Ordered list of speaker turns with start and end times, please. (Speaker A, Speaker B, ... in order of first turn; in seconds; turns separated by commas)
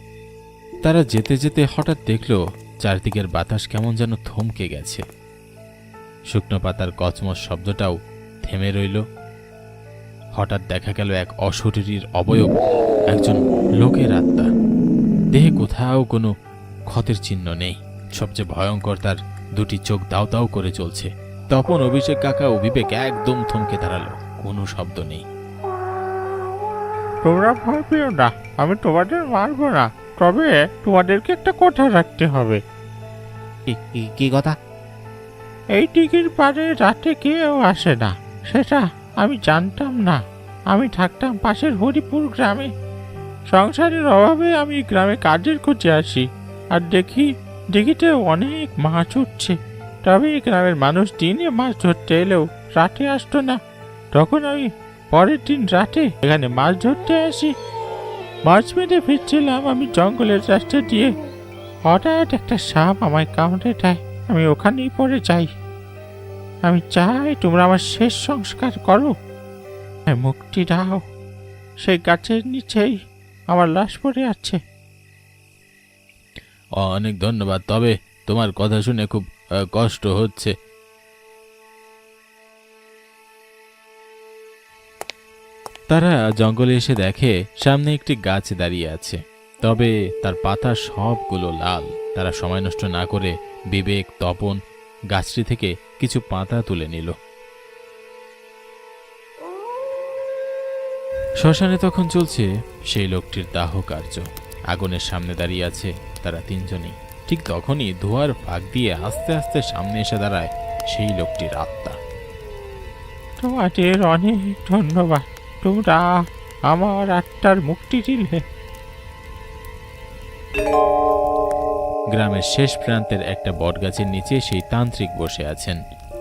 Speaker A: 0.8-5.0, Speaker A: 6.3-9.0, Speaker A: 10.4-12.6, Speaker A: 13.1-14.5, Speaker A: 15.3-16.3, Speaker A: 16.9-25.2, Speaker B: 27.2-32.6, Speaker A: 33.9-34.5, Speaker B: 35.8-42.7, Speaker B: 43.5-53.6, Speaker B: 54.1-57.5, Speaker B: 58.5-61.2, Speaker B: 61.9-65.5, Speaker B: 66.7-69.1, Speaker B: 70.1-71.0, Speaker B: 71.8-73.0, Speaker B: 73.5-74.6, Speaker A: 76.8-80.5, Speaker A: 85.9-94.6, Speaker A: 95.1-97.1, Speaker A: 101.4-112.0, Speaker B: 113.4-116.2, Speaker B: 116.7-118.4, Speaker A: 122.1-125.8